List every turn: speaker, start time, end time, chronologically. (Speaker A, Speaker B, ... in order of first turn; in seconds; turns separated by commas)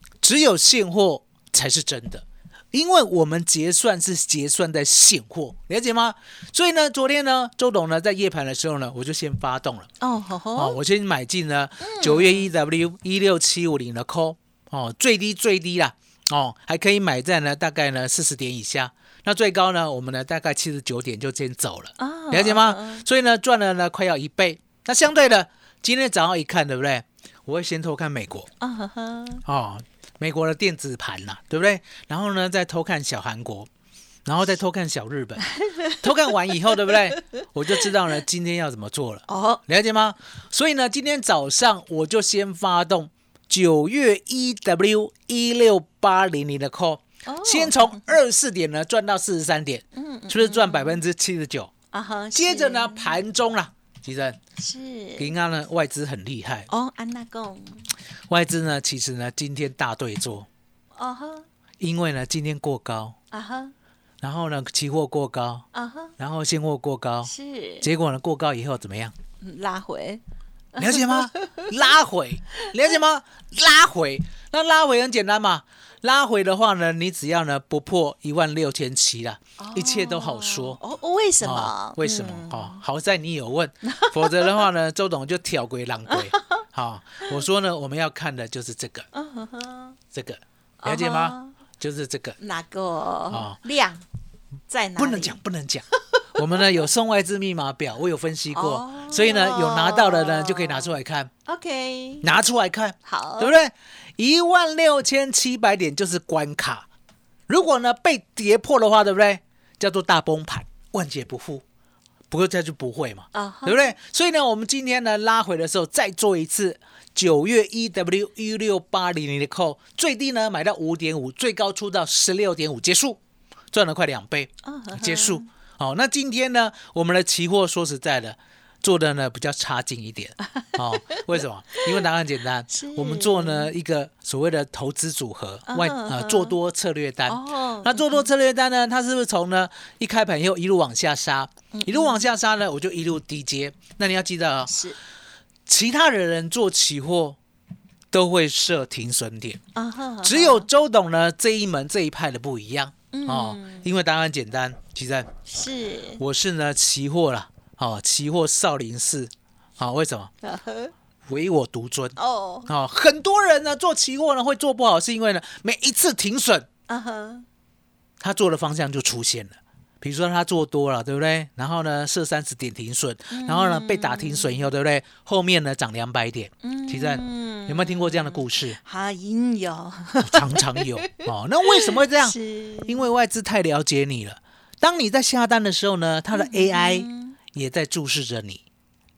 Speaker A: 0.2-9.9, Speaker B: 10.0-10.8, Speaker A: 10.6-28.5, Speaker B: 11.8-12.5, Speaker B: 22.0-23.0, Speaker B: 28.6-29.4, Speaker A: 29.5-33.7, Speaker A: 34.2-51.7, Speaker B: 35.6-35.9, Speaker B: 39.3-39.6, Speaker B: 47.2-48.0, Speaker B: 49.9-51.0, Speaker B: 51.9-53.2, Speaker A: 52.4-54.4, Speaker B: 54.6-55.3, Speaker A: 55.2-56.7, Speaker B: 56.7-57.9, Speaker A: 58.3-60.5, Speaker B: 60.9-61.4, Speaker A: 61.8-63.1, Speaker B: 63.3-63.7, Speaker A: 64.2-65.7, Speaker B: 65.7-66.1, Speaker A: 66.2-67.3, Speaker B: 67.2-67.9, Speaker A: 67.8-69.1, Speaker B: 69.4-70.2, Speaker B: 70.8-71.7, Speaker A: 70.8-80.8, Speaker B: 79.6-82.8, Speaker A: 81.4-89.0, Speaker B: 83.9-84.6, Speaker B: 86.1-86.6, Speaker B: 89.1-90.0, Speaker A: 90.1-92.4, Speaker B: 90.8-91.5, Speaker B: 92.4-94.0, Speaker A: 93.3-93.5, Speaker B: 94.7-95.4, Speaker A: 95.0-101.3, Speaker B: 96.1-96.5, Speaker B: 98.5-102.3, Speaker A: 102.2-106.8, Speaker B: 103.0-103.5, Speaker A: 107.5-111.6, Speaker A: 112.3-123.2, Speaker B: 113.3-113.9, Speaker A: 123.7-144.7, Speaker B: 124.6-125.5, Speaker B: 130.4-131.2, Speaker B: 132.7-133.7, Speaker B: 135.7-136.6, Speaker B: 137.3-138.3, Speaker B: 141.7-142.2, Speaker B: 144.7-145.0, Speaker A: 145.7-147.4, Speaker A: 148.1-149.6, Speaker B: 149.8-150.7, Speaker A: 150.2-155.3, Speaker B: 153.1-153.9, Speaker B: 155.5-156.2, Speaker A: 156.2-160.3, Speaker B: 160.4-160.9, Speaker A: 161.3-162.2, Speaker B: 162.2-162.7, Speaker A: 162.7-166.7, Speaker B: 166.9-167.4, Speaker A: 168.2-178.8, Speaker B: 173.3-174.6, Speaker B: 176.6-181.2, Speaker A: 180.2-182.3, Speaker B: 181.8-183.1, Speaker A: 182.9-188.6, Speaker B: 186.3-187.4